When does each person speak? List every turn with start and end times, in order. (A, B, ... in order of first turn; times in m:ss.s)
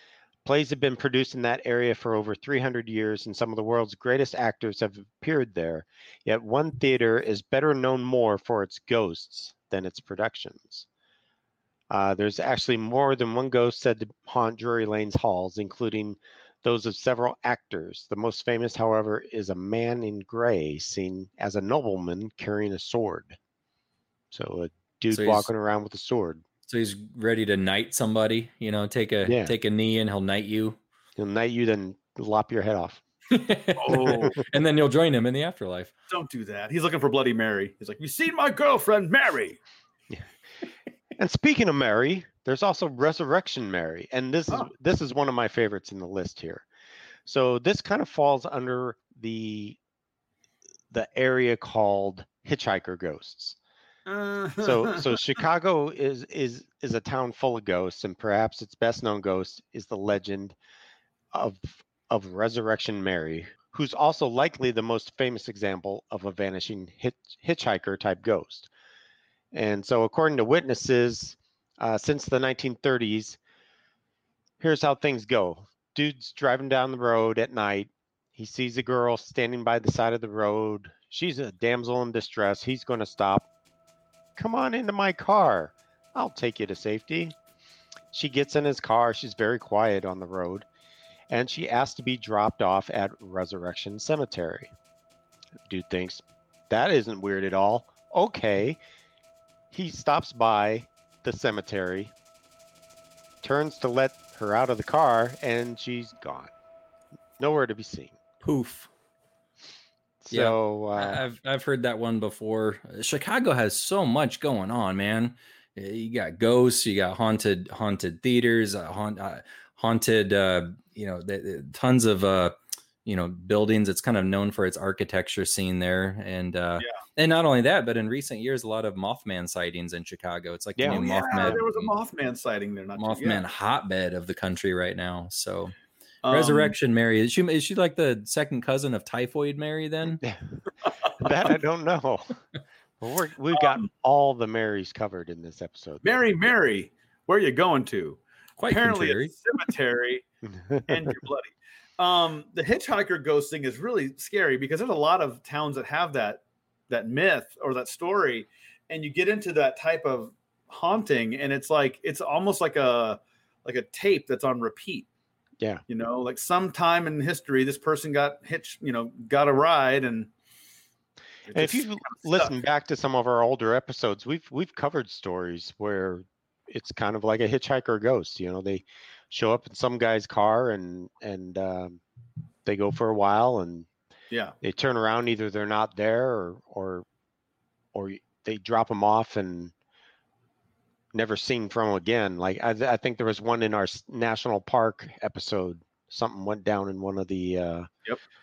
0:00.4-0:10.9 A
0:11.9-0:23.4 A
0:24.3-0:26.4 A
0:25.1-0:25.5 B
0:26.7-0:30.8 B
0:29.2-0:29.5 A
0:31.2-0:33.0 A
0:33.3-0:35.9 B
0:33.8-0:34.4 C
0:34.0-0:34.4 A
0:36.1-0:39.6 C
0:41.2-0:46.6 A
0:47.3-0:49.8 A
0:50.9-0:53.6 A
0:54.1-0:55.2 C
0:54.6-1:00.6 A
1:01.3-1:08.7 A
1:09.5-1:13.4 A
1:14.6-1:23.5 A
1:24.4-1:27.4 A
1:28.1-1:30.7 A
1:31.3-1:34.7 A
1:35.7-1:38.8 A
1:39.7-1:42.1 A
1:43.4-1:46.5 A
1:47.4-1:48.2 A
1:48.4-1:48.9 B
1:50.2-1:51.2 A
1:50.3-2:11.9 B
2:10.8-2:11.6 A
2:10.9-2:13.4 C
2:13.0-2:15.8 B
2:16.2-2:16.8 C
2:16.3-2:20.2 B
2:21.2-2:22.4 A
2:23.0-2:26.0 A
2:23.5-2:23.9 C
2:26.0-2:30.2 C
2:28.6-2:29.3 B
2:30.5-2:31.1 A
2:30.9-2:45.1 C
2:45.9-2:50.3 C
2:51.5-2:52.6 C
2:51.5-3:02.0 A
3:02.6-3:03.9 A
3:04.6-3:07.1 A
3:07.9-3:09.7 A
3:11.1-3:17.9 A